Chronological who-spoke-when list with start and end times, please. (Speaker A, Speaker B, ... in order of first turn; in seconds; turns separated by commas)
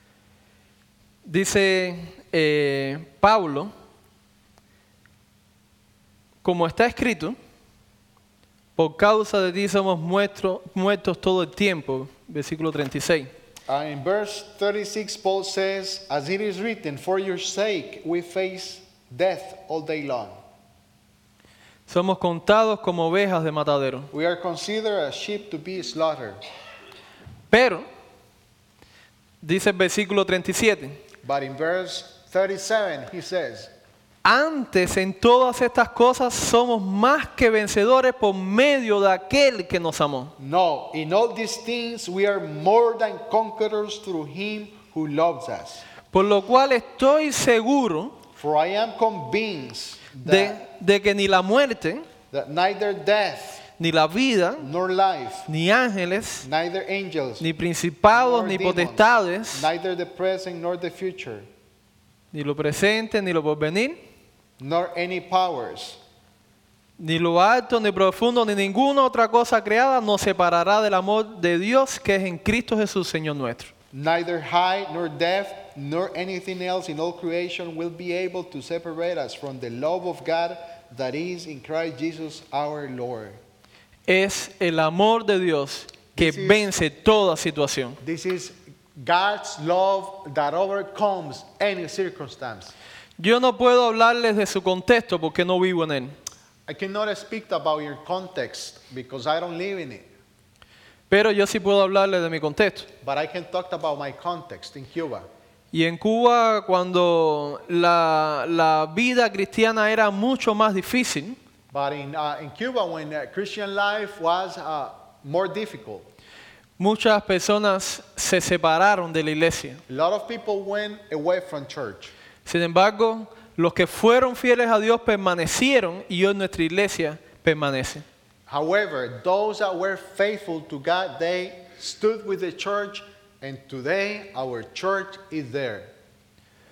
Speaker A: 1.2-3.7, Speaker A: 6.4-7.4, Speaker A: 8.8-13.3, Speaker B: 13.7-20.4, Speaker A: 21.9-24.1, Speaker B: 24.1-26.4, Speaker A: 27.5-27.9, Speaker A: 29.4-31.0, Speaker B: 31.2-33.7, Speaker A: 34.2-40.3, Speaker B: 40.4-45.9, Speaker A: 46.1-48.2, Speaker B: 48.4-50.6, Speaker A: 50.2-52.1, Speaker B: 52.3-53.7, Speaker A: 53.8-54.7, Speaker B: 54.6-55.5, Speaker A: 55.5-56.5, Speaker B: 56.4-57.5, Speaker A: 57.4-59.7, Speaker B: 58.1-61.5, Speaker A: 62.3-64.0, Speaker B: 64.6-66.0, Speaker A: 67.0-73.7, Speaker B: 73.9-83.4, Speaker A: 84.1-88.0, Speaker B: 86.2-86.7, Speaker B: 88.0-92.8, Speaker A: 93.2-96.2, Speaker B: 96.7-100.1, Speaker A: 101.1-102.9, Speaker B: 103.0-105.3, Speaker A: 105.7-111.4, Speaker B: 111.7-116.1, Speaker A: 116.8-119.8, Speaker B: 119.9-122.1, Speaker A: 122.5-128.1, Speaker B: 128.5-135.9